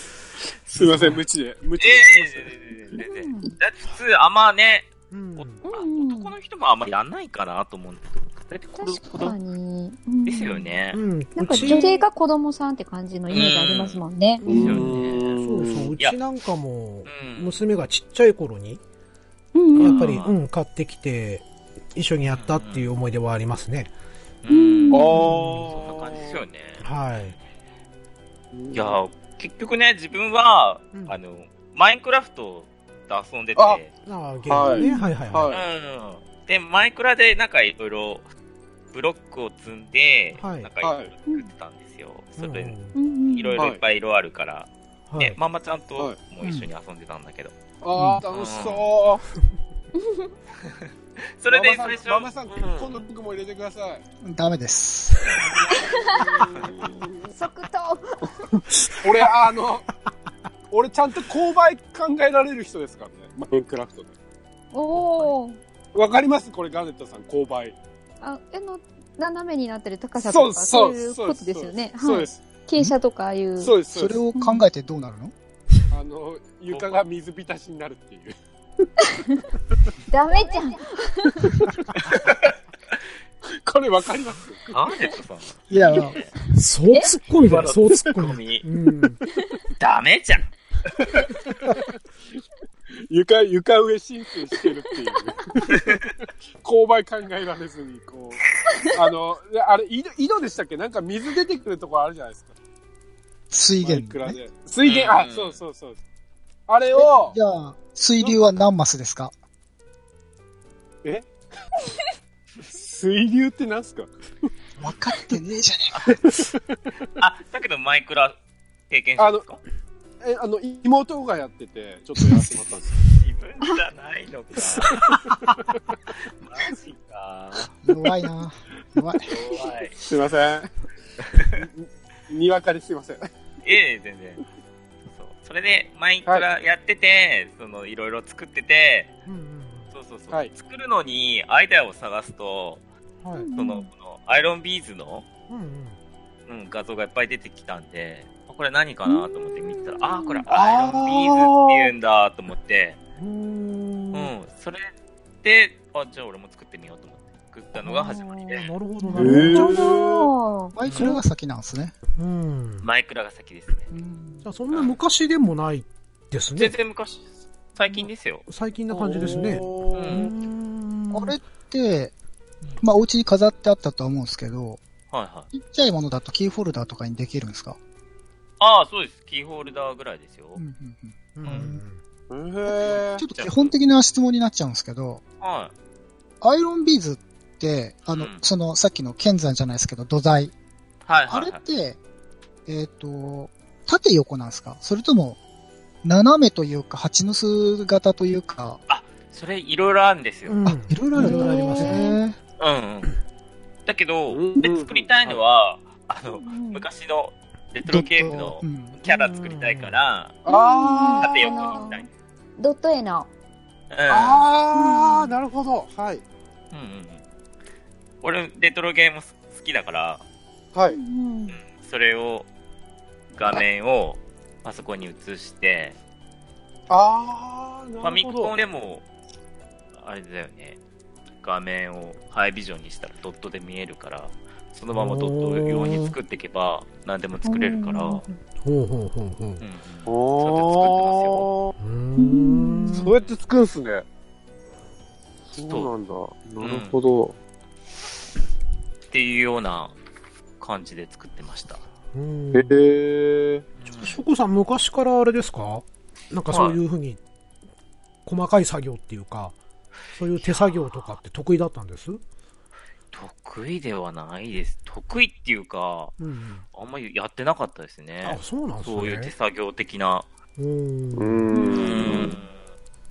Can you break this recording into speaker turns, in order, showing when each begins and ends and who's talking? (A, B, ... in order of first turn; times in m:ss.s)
0:00.7-0:02.5 A
0:00.8-0:01.2 B
0:01.8-0:09.4 C
0:03.0-0:03.5 D
0:05.1-0:05.6 B
0:05.6-0:06.3 D
0:08.8-0:10.7 D
0:10.2-0:12.0 C
0:10.9-0:11.9 B
0:11.4-0:14.5 D
0:13.3-0:15.3 C
0:14.4-0:18.8 B
0:14.4-0:15.9 A
0:17.1-0:17.6 C
0:19.5-0:20.2 D
0:19.7-0:20.4 C
0:19.8-0:23.9 B
0:22.3-0:22.9 C
0:24.4-0:26.8 C
0:24.5-0:25.4 D
0:24.9-0:26.4 A
0:25.2-0:25.7 B
0:26.8-0:27.4 B
0:28.5-0:29.0 A
0:28.7-0:33.9 C
0:34.1-0:35.6 B
0:34.5-0:35.6 A
0:34.7-0:35.1 D
0:35.5-0:38.3 C
0:38.9-0:42.8 C
0:40.4-0:40.7 B
0:40.8-0:41.1 A
0:42.4-0:43.0 B
0:43.0-0:43.7 D
0:43.3-0:47.5 C
0:45.1-0:45.4 B
0:46.4-0:46.7 E
0:47.8-0:49.2 A
0:47.9-0:48.2 E
0:48.3-0:48.9 C
0:50.0-0:50.3 D
0:50.7-0:53.0 C
0:51.5-0:54.0 A
0:54.2-0:55.4 E
0:55.3-0:55.5 C
0:55.7-0:56.4 D
0:56.1-0:57.2 A
0:56.4-0:56.7 C
0:57.3-0:58.3 D
0:58.4-0:59.9 A
1:00.7-1:04.1 A
1:04.7-1:05.6 D
1:05.9-1:07.8 A
1:08.2-1:13.8 D
1:10.2-1:12.4 A
1:13.6-1:14.2 A
1:13.9-1:15.3 E
1:14.4-1:14.6 D
1:15.9-1:18.4 A
1:16.7-1:17.0 C
1:19.0-1:19.5 D
1:20.1-1:21.6 D
1:23.5-1:24.7 A
1:24.7-1:26.3 C
1:25.7-1:26.2 E
1:26.5-1:29.2 B
1:27.4-1:28.6 C
1:29.8-1:30.5 C
1:32.9-1:42.5 A
1:35.7-1:36.0 C
1:43.5-1:44.4 E
1:43.8-1:46.0 A
1:44.8-1:45.6 C
1:46.7-1:47.4 A
1:46.9-1:49.3 E
1:52.6-1:54.1 A
1:54.8-1:56.0 E
1:56.3-1:56.6 A
1:57.2-1:58.4 C
1:58.9-1:59.6 C
1:59.2-1:59.4 A
2:00.2-2:03.0 A
2:03.1-2:05.0 C
2:04.9-2:05.4 B
2:06.4-2:07.7 C
2:07.8-2:09.3 E
2:09.2-2:10.0 C
2:10.0-2:10.7 A
2:11.2-2:11.6 C
2:11.4-2:13.3 A
2:13.6-2:14.4 C
2:15.0-2:19.2 C
2:19.2-2:19.9 B
2:19.9-2:22.8 C
2:23.2-2:23.5 B
2:23.3-2:23.9 D
2:23.6-2:25.3 C
2:25.5-2:26.0 B
2:26.5-2:33.0 C
2:30.0-2:30.4 D
2:30.5-2:31.9 A
2:33.2-2:34.3 B
2:34.1-2:34.9 C
2:35.4-2:38.7 C
2:37.8-2:40.0 B
2:39.0-2:40.8 D
2:39.2-2:40.3 A
2:40.8-2:41.9 E
2:40.9-2:41.2 C
2:40.9-2:41.2 B
2:42.2-2:42.9 B
2:42.8-2:43.9 C
2:43.9-2:44.4 E
2:44.4-2:46.8 B
2:46.6-2:48.4 C
2:48.5-2:51.4 B
2:48.9-2:50.3 A
2:50.0-2:50.3 C
2:51.1-2:52.1 E
2:52.8-2:54.8 E
2:55.1-2:55.5 C
2:55.5-2:57.8 E
2:58.6-3:00.6 C
3:00.6-3:01.8 E
3:01.4-3:02.0 B
3:02.3-3:03.2 A
3:03.1-3:05.2 E
3:03.3-3:03.7 C
3:05.4-3:05.7 C
3:06.4-3:10.5 E
3:08.1-3:08.4 C
3:11.0-3:11.6 C
3:11.3-3:12.0 E
3:12.7-3:15.4 E
3:16.0-3:18.8 E
3:18.9-3:20.6 C
3:20.5-3:22.1 B
3:20.6-3:22.4 E
3:21.2-3:22.2 D
3:22.6-3:23.1 C
3:23.9-3:30.5 C
3:24.3-3:25.4 A
3:26.3-3:26.8 D
3:27.9-3:29.0 E
3:29.0-3:30.0 B
3:30.5-3:31.4 A
3:30.5-3:33.3 D
3:31.2-3:32.1 C
3:33.9-3:34.5 C
3:34.1-3:36.2 A
3:34.7-3:35.3 D
3:36.7-3:37.2 C
3:38.2-3:40.2 C
3:40.7-3:41.0 A
3:40.9-3:41.6 D
3:41.5-3:42.5 C
3:43.3-3:46.0 C
3:46.9-3:48.6 A
3:48.0-3:49.0 C
3:50.0-3:50.8 C
3:51.4-3:58.2 C
3:54.9-3:56.2 B
3:57.4-3:58.4 D
3:58.6-3:59.6 B
3:59.6-4:01.5 C
4:00.0-4:01.7 A
4:01.8-4:03.1 B
4:02.2-4:03.1 D
4:02.9-4:04.0 A
4:05.6-4:07.4 A
4:06.6-4:07.0 C
4:09.1-4:10.0 C
4:10.6-4:11.9 C
4:12.1-4:12.8 B
4:12.5-4:13.6 A
4:13.8-4:14.2 C
4:14.0-4:17.2 B
4:16.5-4:16.8 C
4:18.2-4:19.5 B
4:20.1-4:22.2 B
4:20.4-4:21.1 C
4:23.1-4:26.1 C
4:26.2-4:26.6 B
4:26.7-4:30.3 C
4:28.2-4:29.3 B
4:30.6-4:31.6 B
4:31.2-4:32.4 A
4:31.5-4:32.1 D
4:31.6-4:32.5 C